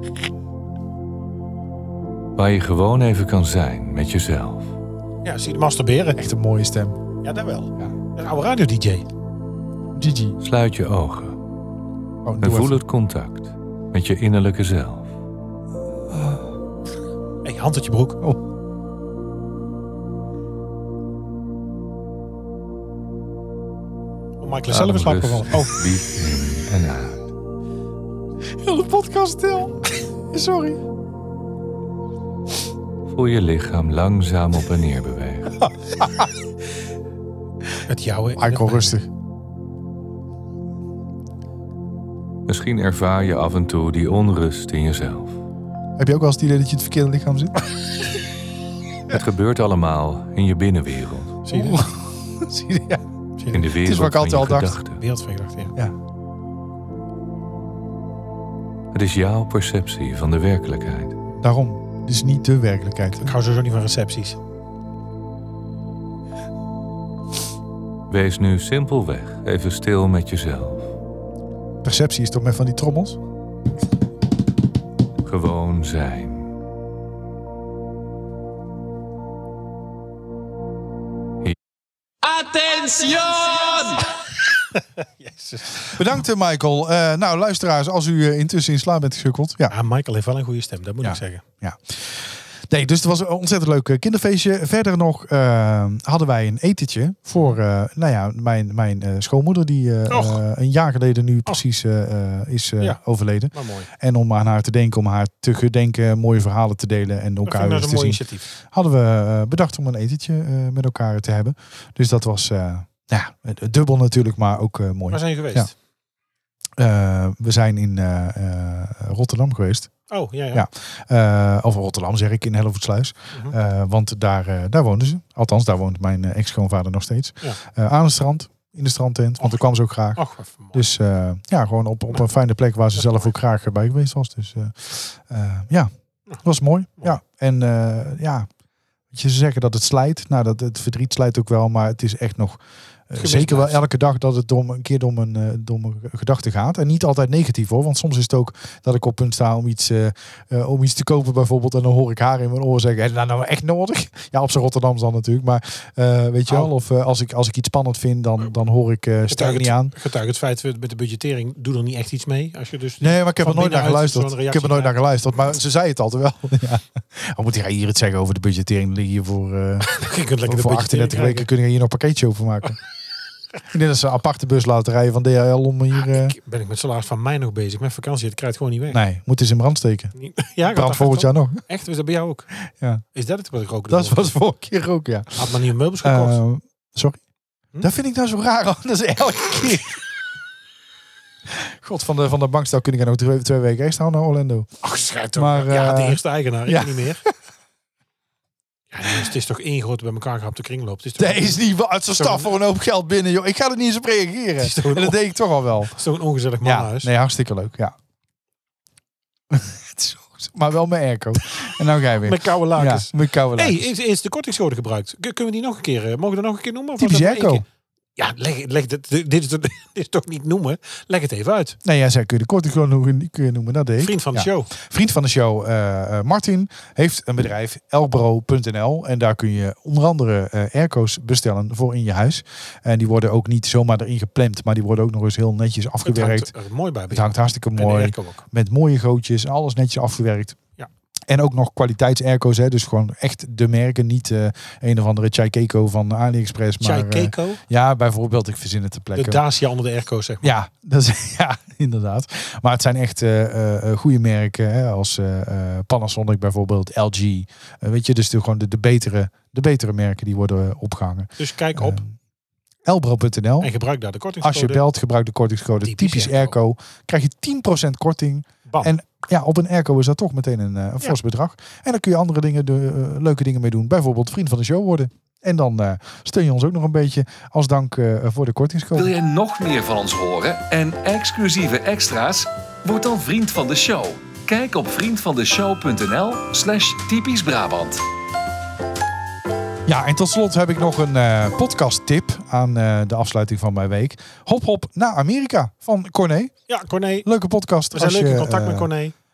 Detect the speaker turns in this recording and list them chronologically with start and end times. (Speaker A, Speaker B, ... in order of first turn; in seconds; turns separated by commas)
Speaker A: 2.4-4.8, Speaker B: 5.2-6.2, Speaker C: 6.2-7.0, Speaker B: 7.2-9.1, Speaker C: 9.9-10.4, Speaker A: 10.4-11.4, Speaker C: 12.2-12.8, Speaker A: 12.4-15.1, Speaker C: 16.1-16.5, Speaker B: 17.4-18.2, Speaker B: 24.4-25.8, Speaker A: 24.7-27.2, Speaker C: 28.5-30.8, Speaker A: 33.1-35.6, Speaker C: 35.6-36.3, Speaker B: 37.9-39.0, Speaker C: 38.4-39.1, Speaker A: 42.5-45.4, Speaker C: 46.0-47.6, Speaker A: 49.1-51.4, Speaker B: 51.5-51.9, Speaker C: 51.5-53.0, Speaker B: 53.4-53.6, Speaker A: 53.5-55.0, Speaker C: 53.7-54.8, Speaker B: 55.0-55.7, Speaker A: 58.9-61.1, Speaker C: 61.4-63.3, Speaker B: 63.2-64.4, Speaker A: 68.1-70.9, Speaker C: 71.8-73.2, Speaker A: 75.2-76.5, Speaker B: 83.3-84.0, Speaker B: 84.8-86.0, Speaker C: 85.9-89.7, Speaker B: 89.7-91.4, Speaker C: 91.0-115.7, Speaker B: 100.1-100.4, Speaker B: 103.5-103.9, Speaker B: 107.5-108.5, Speaker B: 115.1-115.7, Speaker C: 116.8-119.9, Speaker B: 120.1-120.7, Speaker C: 120.5-130.2, Speaker B: 130.2-130.9, Speaker C: 130.7-135.9, Speaker B: 133.0-133.3, Speaker C: 136.4-138.5, Speaker C: 139.1-159.9, Speaker B: 143.2-143.8, Speaker B: 159.3-165.0, Speaker C: 163.0-169.9, Speaker B: 169.8-171.5, Speaker C: 170.5-172.8, Speaker C: 173.7-176.3, Speaker B: 176.0-179.0, Speaker C: 178.9-180.1, Speaker B: 180.2-182.5, Speaker C: 180.7-181.6, Speaker C: 182.7-183.0, Speaker B: 183.1-184.4, Speaker C: 183.9-185.5, Speaker B: 185.4-186.4, Speaker C: 186.0-187.2, Speaker C: 187.8-190.0, Speaker C: 191.5-194.7, Speaker B: 194.8-197.2, Speaker C: 195.4-197.3, Speaker B: 198.9-201.6, Speaker C: 201.2-206.0, Speaker B: 202.2-202.6, Speaker B: 204.6-205.2, Speaker B: 205.9-207.1, Speaker C: 206.6-207.9, Speaker C: 209.5-213.9, Speaker B: 212.2-217.6, Speaker C: 217.0-217.6, Speaker B: 218.2-221.8, Speaker C: 221.8-236.5, Speaker B: 224.0-224.7, Speaker B: 236.0-238.4, Speaker C: 237.1-240.6, Speaker C: 241.3-249.4, Speaker B: 246.8-247.6, Speaker B: 249.2-250.5, Speaker C: 250.4-262.2, Speaker B: 261.4-262.0, Speaker C: 262.9-263.7, Speaker B: 263.6-264.8, Speaker C: 264.4-279.1, Speaker B: 265.8-266.6, Speaker B: 268.7-268.9, Speaker D: 278.9-288.0, Speaker C: 289.9-296.5, Speaker B: 296.7-297.3, Speaker C: 297.2-298.9, Speaker B: 297.9-299.1